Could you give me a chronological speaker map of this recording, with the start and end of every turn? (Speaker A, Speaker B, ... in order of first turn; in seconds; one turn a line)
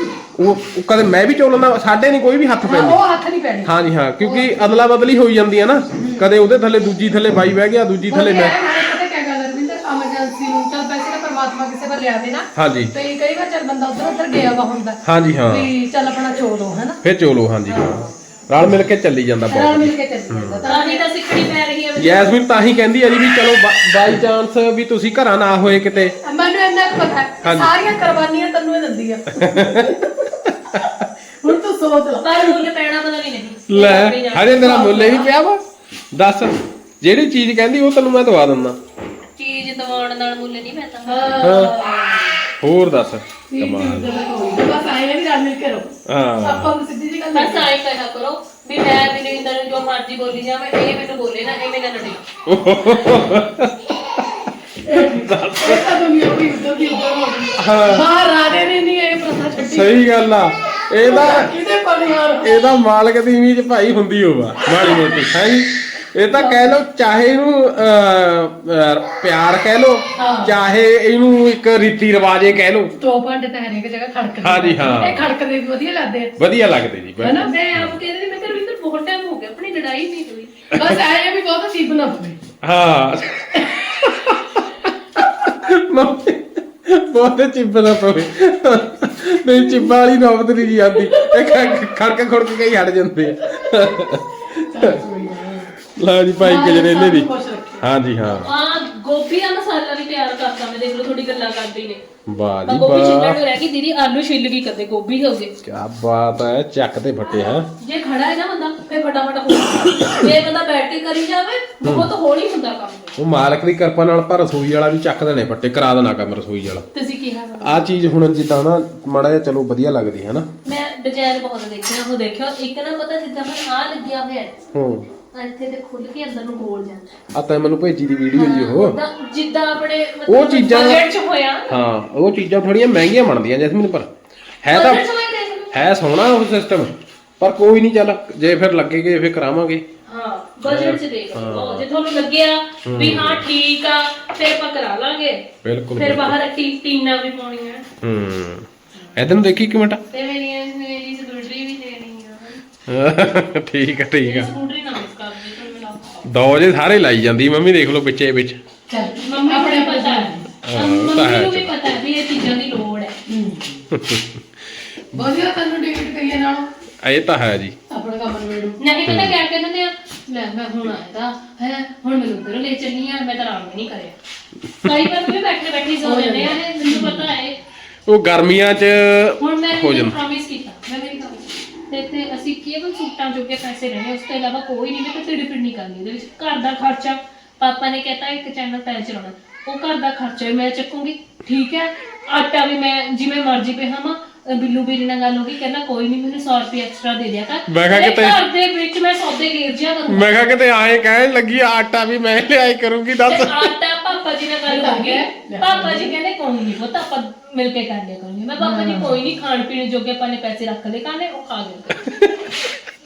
Speaker A: 0.3-3.0
Speaker B: 2.6-4.5
Speaker A: 3.6-8.6
Speaker B: 6.0-6.3
Speaker B: 8.1-17.0
Speaker A: 12.6-12.9
Speaker A: 15.0-15.7
Speaker A: 17.0-20.7
Speaker B: 17.7-18.1
Speaker B: 19.5-21.0
Speaker C: 20.6-22.4
Speaker A: 22.0-26.1
Speaker B: 26.2-30.1
Speaker A: 27.4-27.8
Speaker A: 29.3-30.9
Speaker B: 31.4-32.3
Speaker C: 32.2-35.1
Speaker A: 33.7-35.6
Speaker B: 34.6-35.3
Speaker A: 36.1-38.8
Speaker C: 39.4-41.3
Speaker B: 41.1-42.4
Speaker A: 41.4-41.8
Speaker A: 42.6-44.1
Speaker B: 43.5-47.7
Speaker A: 46.1-46.8
Speaker C: 47.3-52.2
Speaker A: 52.5-54.2
Speaker B: 54.9-60.0
Speaker A: 54.9-55.9
Speaker A: 57.6-58.1
Speaker A: 59.6-61.5
Speaker B: 61.0-62.6
Speaker A: 62.4-73.0
Speaker B: 66.3-66.7
Speaker B: 70.2-70.6
Speaker B: 73.0-76.3
Speaker A: 74.4-75.3
Speaker A: 76.4-78.0
Speaker B: 77.2-77.5
Speaker C: 77.4-80.5
Speaker A: 80.7-81.0
Speaker B: 80.7-82.4
Speaker A: 82.6-84.6
Speaker A: 85.2-95.0
Speaker B: 91.1-91.7
Speaker B: 94.6-95.7
Speaker A: 95.9-98.5
Speaker B: 96.4-97.8
Speaker C: 98.3-102.0
Speaker A: 102.3-103.4
Speaker C: 102.7-105.5
Speaker A: 105.6-107.7
Speaker C: 107.8-113.2
Speaker A: 111.8-112.1
Speaker A: 113.2-116.9
Speaker C: 116.9-117.9
Speaker A: 117.6-120.5
Speaker C: 120.7-124.6
Speaker A: 124.7-125.1
Speaker C: 125.3-127.1
Speaker A: 127.3-129.0
Speaker C: 128.3-131.7
Speaker A: 130.3-131.1
Speaker A: 131.7-134.1
Speaker A: 134.6-135.0
Speaker C: 134.7-135.9
Speaker A: 135.7-139.8
Speaker C: 140.1-145.4
Speaker A: 140.6-141.9
Speaker A: 142.8-143.4
Speaker A: 145.6-146.3
Speaker C: 146.0-147.8
Speaker A: 148.0-150.0
Speaker C: 149.0-149.3
Speaker C: 150.1-152.6
Speaker A: 152.9-154.5
Speaker C: 154.2-156.4
Speaker A: 156.2-158.6
Speaker B: 158.9-160.5
Speaker C: 159.2-163.2
Speaker A: 160.6-162.0
Speaker B: 163.3-163.8
Speaker A: 163.9-164.5
Speaker B: 165.1-166.7
Speaker A: 167.0-167.8
Speaker B: 167.9-168.8
Speaker C: 168.8-174.2
Speaker A: 169.1-169.4
Speaker C: 174.8-177.6
Speaker B: 176.0-177.2
Speaker A: 178.1-180.2
Speaker C: 179.4-200.3
Speaker A: 197.7-198.4
Speaker A: 200.1-203.7
Speaker C: 203.3-212.1
Speaker B: 204.7-206.1
Speaker B: 208.6-209.2